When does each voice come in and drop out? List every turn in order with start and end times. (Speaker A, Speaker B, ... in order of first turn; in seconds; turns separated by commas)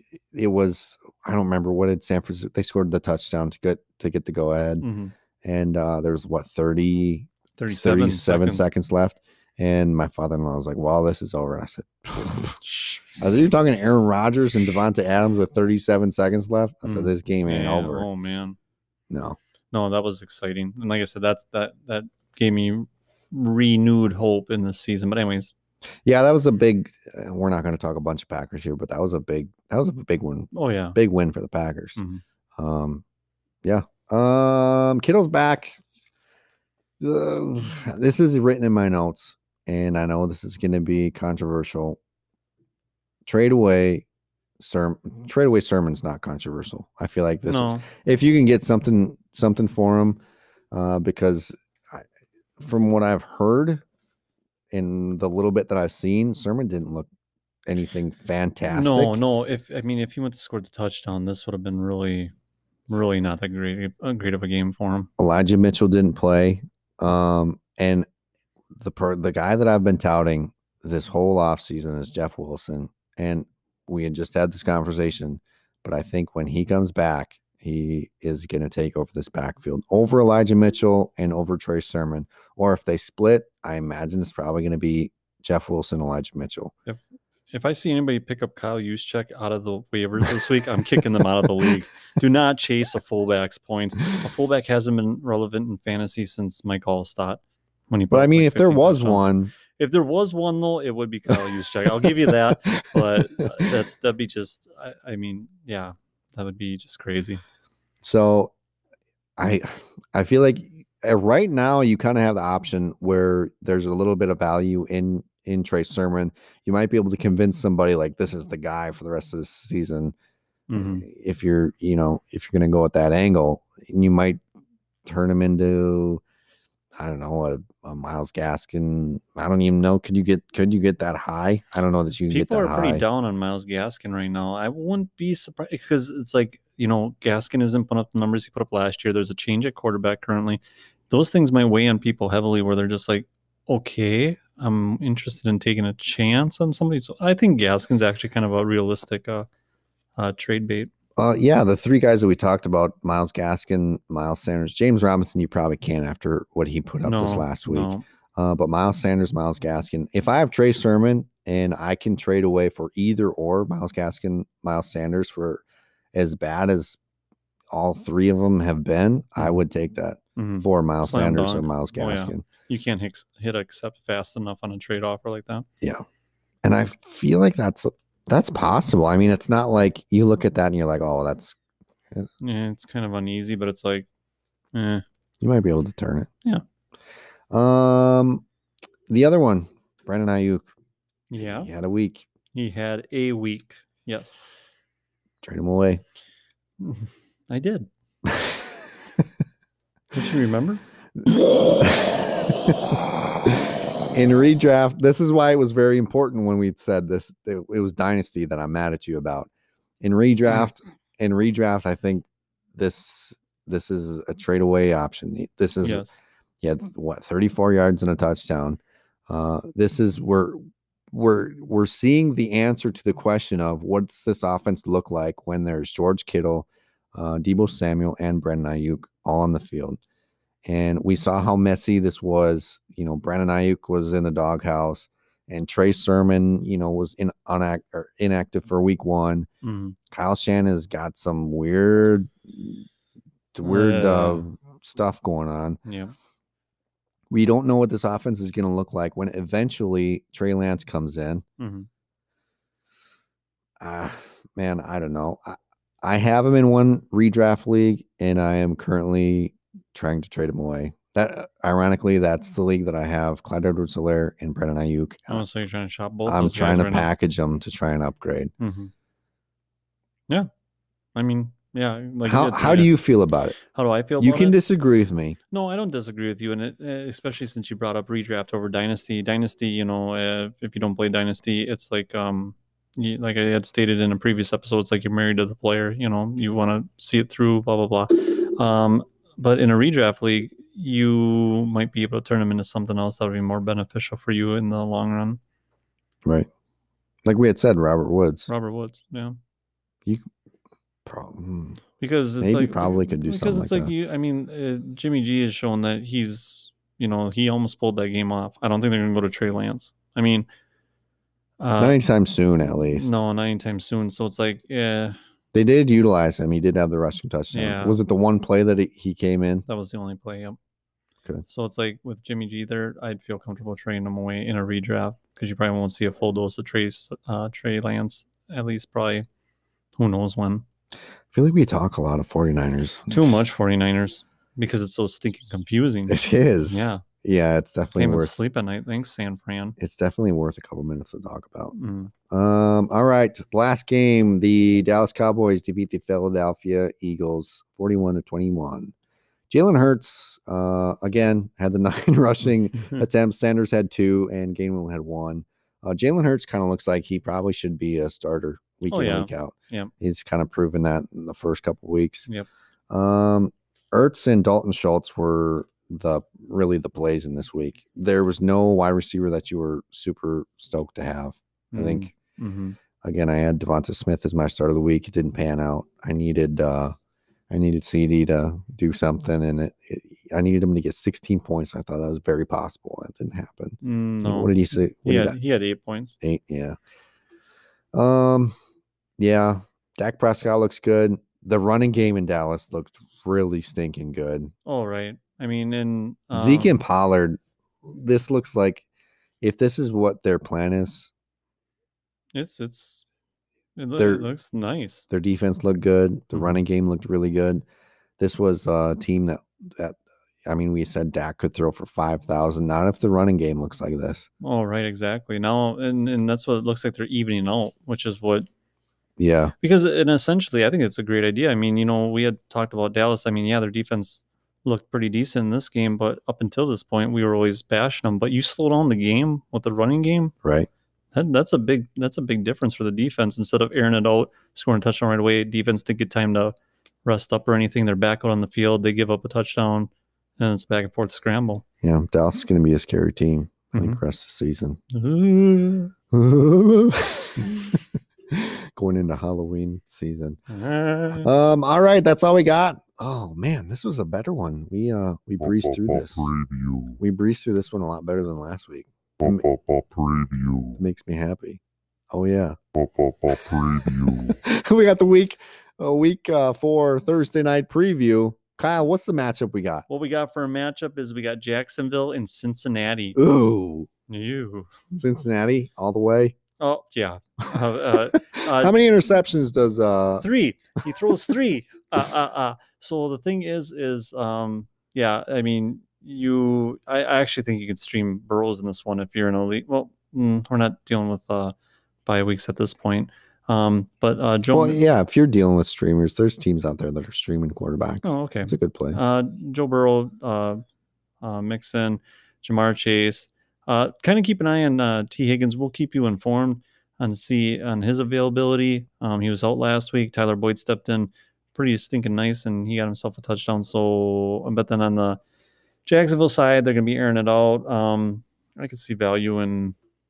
Speaker A: 0.3-4.9, Speaker B: 4.8-5.1, Speaker A: 5.4-12.6, Speaker B: 7.6-8.7, Speaker B: 12.6-13.0, Speaker A: 13.2-18.1, Speaker B: 16.9-18.6, Speaker A: 19.1-19.4, Speaker B: 19.7-25.5, Speaker A: 26.1-32.0, Speaker B: 30.5-31.0, Speaker B: 32.0-32.2, Speaker A: 32.6-33.0, Speaker A: 33.6-35.8, Speaker A: 37.0-42.0, Speaker A: 43.2-44.1, Speaker A: 44.6-50.2, Speaker B: 47.5-47.9, Speaker A: 50.7-52.0, Speaker A: 52.6-53.8, Speaker A: 54.7-57.1, Speaker A: 57.7-59.2, Speaker B: 58.7-62.3, Speaker B: 62.9-65.1, Speaker A: 65.2-68.1, Speaker A: 68.7-86.7, Speaker B: 87.5-107.4, Speaker A: 98.1-99.5, Speaker A: 102.0-103.6, Speaker A: 108.0-108.5, Speaker A: 109.4-120.2, Speaker B: 120.7-121.1, Speaker A: 120.8-124.4, Speaker A: 125.0-126.2, Speaker A: 127.0-133.1, Speaker B: 132.3-149.5, Speaker B: 150.2-150.9, Speaker A: 151.2-165.6, Speaker B: 157.0-158.0, Speaker A: 166.1-167.0, Speaker A: 167.7-172.4, Speaker B: 170.4-175.7, Speaker A: 176.6-181.6, Speaker B: 182.4-184.1, Speaker B: 184.7-185.0, Speaker A: 185.4-186.3, Speaker A: 187.5-188.4, Speaker A: 189.1-190.7, Speaker B: 191.3-191.7, Speaker A: 191.4-192.3, Speaker B: 192.6-194.5, Speaker A: 195.4-196.0, Speaker B: 196.8-197.9, Speaker A: 198.3-198.7, Speaker B: 200.1-200.8, Speaker A: 201.2-209.5, Speaker A: 210.0-216.1, Speaker B: 215.8-216.1, Speaker A: 216.6-230.0, Speaker A: 230.7-239.5, Speaker B: 239.6-240.0, Speaker A: 240.1-242.8, Speaker A: 243.5-245.8, Speaker B: 243.6-244.4, Speaker B: 245.9-246.1, Speaker A: 247.3-251.4, Speaker B: 251.6-251.9, Speaker A: 253.8-265.4, Speaker B: 265.3-267.1, Speaker A: 266.3-268.5, Speaker B: 268.6-268.9, Speaker B: 271.1-272.9, Speaker A: 272.3-273.6, Speaker B: 273.7-274.6, Speaker A: 274.2-275.4, Speaker B: 275.5-295.4, Speaker A: 297.2-298.5, Speaker B: 298.5-299.4, Speaker A: 301.1-301.8, Speaker B: 302.0-310.5, Speaker A: 302.4-303.9, Speaker B: 311.6-312.0, Speaker A: 311.8-313.2, Speaker B: 312.9-315.2, Speaker A: 315.5-319.6, Speaker B: 317.5-318.0, Speaker B: 319.7-320.6, Speaker B: 321.5-329.3, Speaker B: 330.0-330.6, Speaker A: 331.3-333.2, Speaker B: 333.1-336.2, Speaker A: 336.1-338.4, Speaker B: 336.7-337.0, Speaker B: 337.9-339.8, Speaker A: 339.8-341.8, Speaker B: 341.8-342.1, Speaker A: 342.3-348.9, Speaker A: 349.5-362.3, Speaker B: 358.9-359.9, Speaker A: 362.9-372.1, Speaker B: 371.7-372.8, Speaker A: 373.0-376.9, Speaker A: 377.5-385.4, Speaker B: 383.8-386.2, Speaker A: 386.2-386.8, Speaker A: 387.9-388.6, Speaker A: 389.2-394.5, Speaker B: 394.7-396.7, Speaker A: 396.3-398.9, Speaker A: 399.4-401.1, Speaker B: 402.4-403.1, Speaker B: 403.8-405.1, Speaker A: 404.0-404.3, Speaker A: 405.1-407.6, Speaker A: 408.2-414.3, Speaker B: 414.4-418.5, Speaker A: 419.2-419.5, Speaker B: 419.6-430.3, Speaker B: 431.1-441.6, Speaker A: 441.8-444.8, Speaker B: 443.7-444.0, Speaker B: 444.9-445.9, Speaker A: 446.1-450.4, Speaker B: 450.5-451.3, Speaker A: 451.1-456.3, Speaker C: 455.4-457.0, Speaker A: 457.0-459.5, Speaker C: 459.2-460.8, Speaker A: 460.8-461.6, Speaker A: 462.1-462.6, Speaker C: 462.7-464.4, Speaker A: 464.1-469.9, Speaker B: 469.9-473.2, Speaker A: 473.2-473.9, Speaker B: 474.1-474.7, Speaker A: 474.9-476.4, Speaker B: 476.6-478.8, Speaker A: 477.9-480.2, Speaker B: 480.2-491.5, Speaker B: 492.1-494.8, Speaker A: 494.5-499.0, Speaker B: 498.0-500.6, Speaker B: 501.2-515.2, Speaker B: 515.9-519.8